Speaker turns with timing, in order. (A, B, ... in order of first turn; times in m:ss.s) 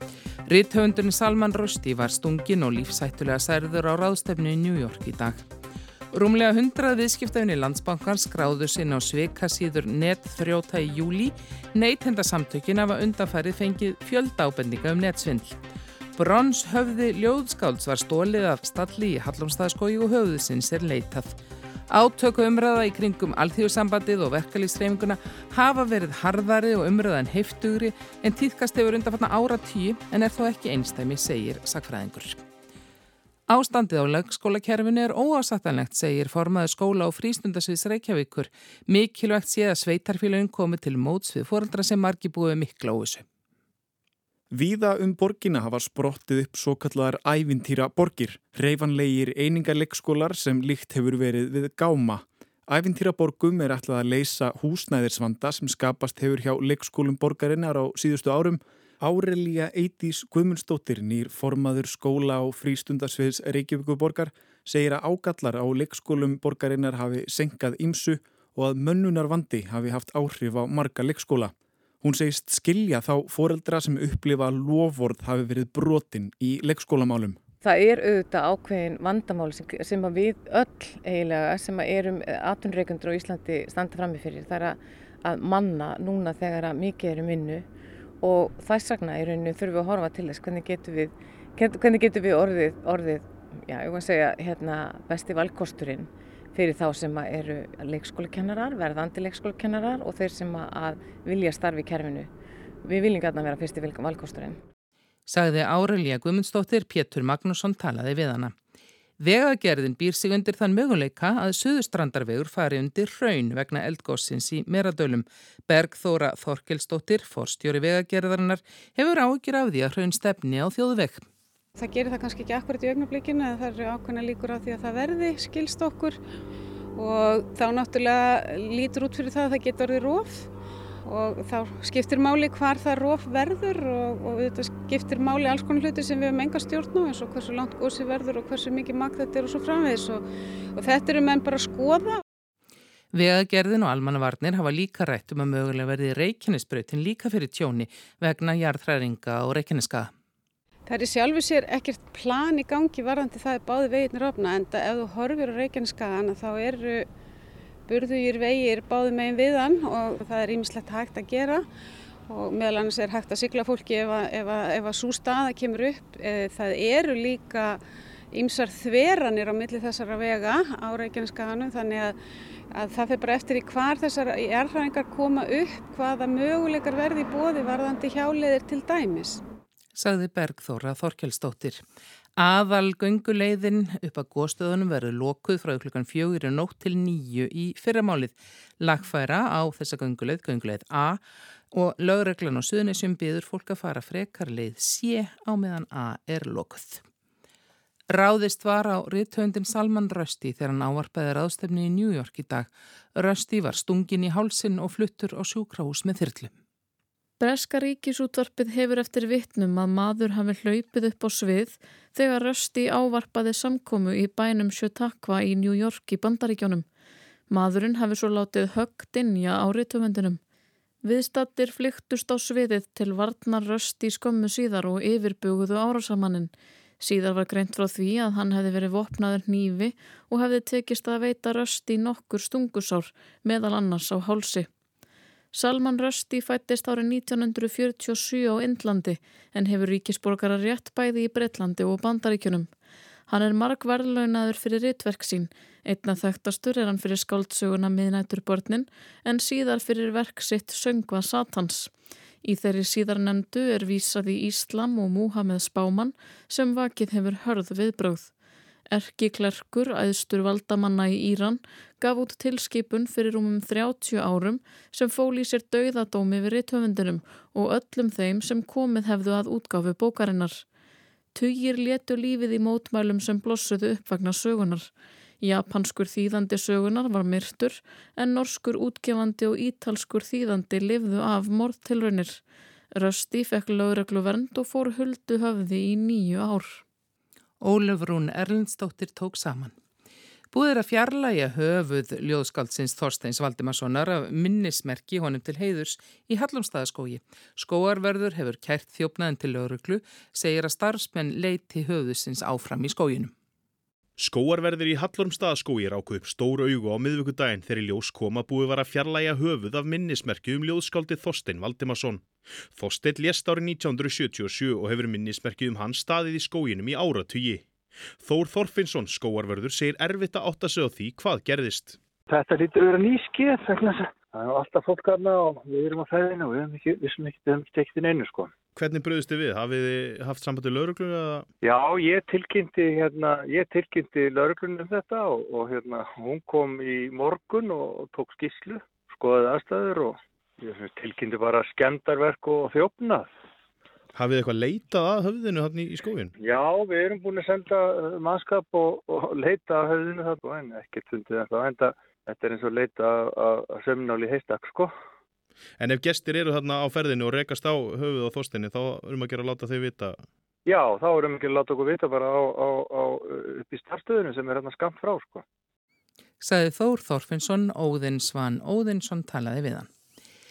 0:00.5-0:05.4 A
0:06.1-0:15.6 A
0:16.2-0:21.4 A
0:21.9-0:32.4 A
0:33.5-0:43.2 A
0:44.5-1:17.4 B
1:17.6-1:27.6 C
1:28.2-1:42.3 C
1:42.8-1:44.6 C
1:45.3-1:48.5 A
1:49.2-2:01.3 A
2:01.8-2:06.2 D
2:07.0-2:10.5 D
2:11.0-2:20.2 D
2:20.8-2:22.2 D
2:23.1-2:30.1 A
2:30.9-2:37.1 D
2:37.9-2:41.6 D
2:42.3-2:47.8 D
2:48.3-2:52.2 D
2:52.7-2:59.4 D
3:00.0-3:01.8 A
3:02.4-3:11.2 A
3:11.7-3:17.0 A
3:18.1-3:26.5 A
3:27.4-3:36.8 E
3:37.5-3:40.4 E
3:41.0-3:54.7 E
3:55.5-4:02.7 E
4:03.3-4:18.3 E
4:18.9-4:30.6 E
4:31.4-4:42.4 E
4:42.9-4:46.8 E
4:47.6-4:49.7 A
4:50.5-5:03.3 A
5:04.2-5:17.6 F
5:18.2-5:22.0 F
5:22.3-5:28.5 G
5:28.8-5:31.5 F
5:31.6-5:43.3 G
5:44.1-5:46.3 F
5:46.4-5:54.9 G
5:55.8-6:00.2 F
6:00.7-6:05.4 G
6:06.4-6:09.9 A